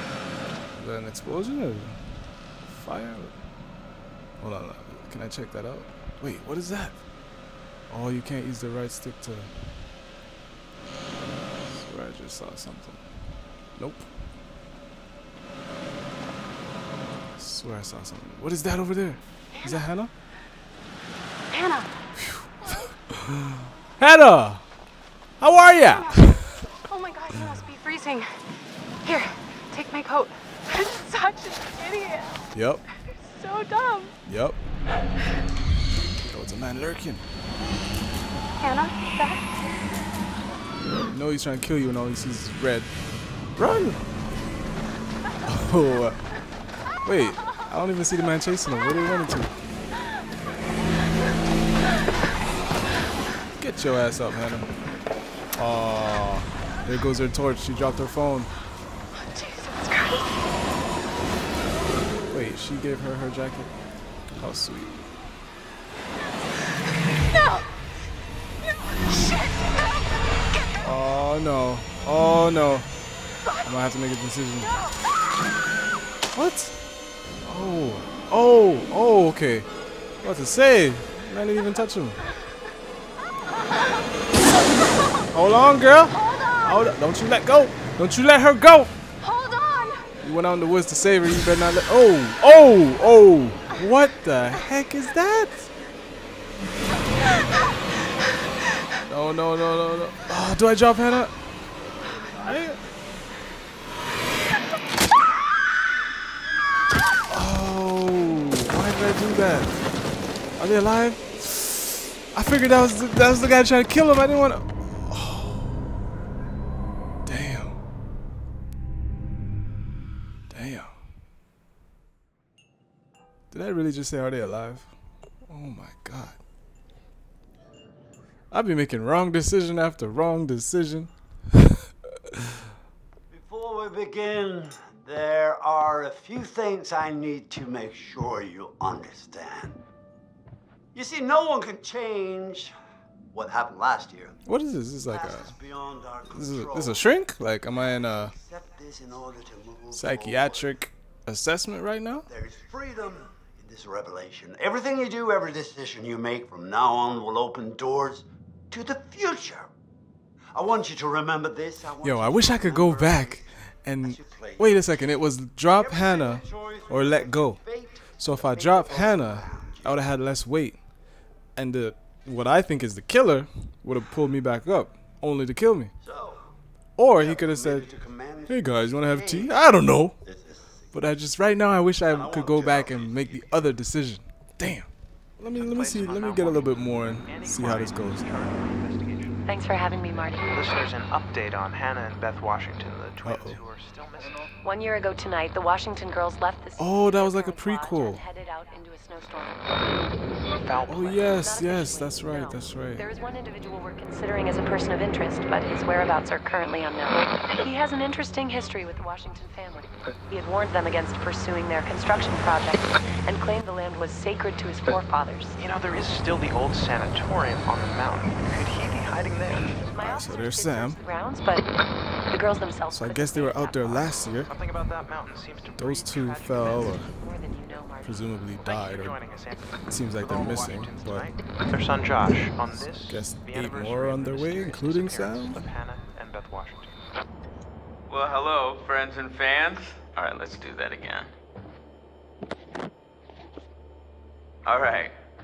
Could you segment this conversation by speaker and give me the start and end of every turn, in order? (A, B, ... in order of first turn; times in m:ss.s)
0:00.7-0:02.0 A
0:02.7-0:03.3 A
0:04.4-0:07.0 A
0:07.9-0:09.5 A
0:11.7-0:13.0 A
0:13.8-0:14.0 A
0:17.4-0:20.1 A
0:19.5-0:19.8 B
0:21.5-0:21.9 B
0:22.2-0:22.5 A
0:22.6-0:22.9 B
0:23.1-0:24.6 A
0:25.4-0:26.5 A
0:25.9-0:28.4 B
0:29.0-0:32.4 B
0:32.5-0:32.8 A
0:33.0-0:34.1 B
0:34.2-0:34.6 A
0:36.2-0:37.2 A
0:38.6-0:39.5 B
0:41.0-0:42.9 A
0:43.6-0:44.0 A
0:45.5-0:46.3 A
0:47.0-0:49.5 A
0:53.6-0:54.7 A
0:55.6-0:58.5 A
0:59.1-1:00.4 B
1:02.3-1:03.7 A
1:04.3-1:05.1 A
1:07.2-1:07.6 B
1:09.1-1:09.9 B
1:10.8-1:12.9 A
1:13.6-1:14.7 A
1:16.3-1:16.8 A
1:17.4-1:19.7 A
1:20.2-1:22.2 A
1:25.3-1:28.9 A
1:26.1-1:27.0 B
1:29.2-1:30.1 B
1:30.2-1:35.7 A
1:39.0-1:41.3 A
1:42.4-1:42.8 A
1:47.3-1:49.8 A
1:50.6-1:55.7 A
1:57.2-1:57.8 A
2:00.5-2:00.9 A
2:03.5-2:04.9 A
2:05.5-2:06.4 A
2:08.5-2:11.7 A
2:13.3-2:19.8 C
2:20.9-2:22.7 C
2:23.3-2:24.4 C
2:24.4-2:25.5 A
2:25.1-2:27.1 C
2:26.3-2:28.3 A
2:27.7-2:30.7 C
2:29.9-2:32.3 A
2:32.3-2:39.7 C
2:40.5-2:43.5 C
2:42.0-2:47.6 A
2:44.0-2:45.0 C
2:45.7-2:50.0 C
2:48.2-2:50.8 A
2:51.6-2:55.9 A
2:56.0-2:56.5 C
2:57.0-2:57.9 A
2:57.1-2:59.6 C
2:58.4-3:00.2 A
3:00.2-3:00.9 C
3:00.9-3:04.9 A
3:02.1-3:03.6 C
3:05.4-3:08.2 A
3:05.5-3:09.5 D
3:09.4-3:10.6 E
3:10.1-3:14.5 D
3:13.2-3:13.6 A
3:14.6-3:19.7 E
3:16.8-3:18.2 A
3:20.6-3:21.6 D
3:20.9-3:23.0 A
3:21.3-3:35.5 E
3:35.5-3:40.0 D
3:39.8-3:41.6 E
3:40.0-3:41.0 A
3:42.3-3:44.0 E
3:42.9-3:44.5 A
3:43.9-3:46.9 D
3:45.8-3:47.1 A
3:46.2-3:48.4 E
3:48.0-3:49.2 A
3:48.6-3:56.9 D
3:49.9-3:51.3 A
3:53.0-3:55.6 A
3:58.1-4:01.3 F
4:04.6-4:05.1 F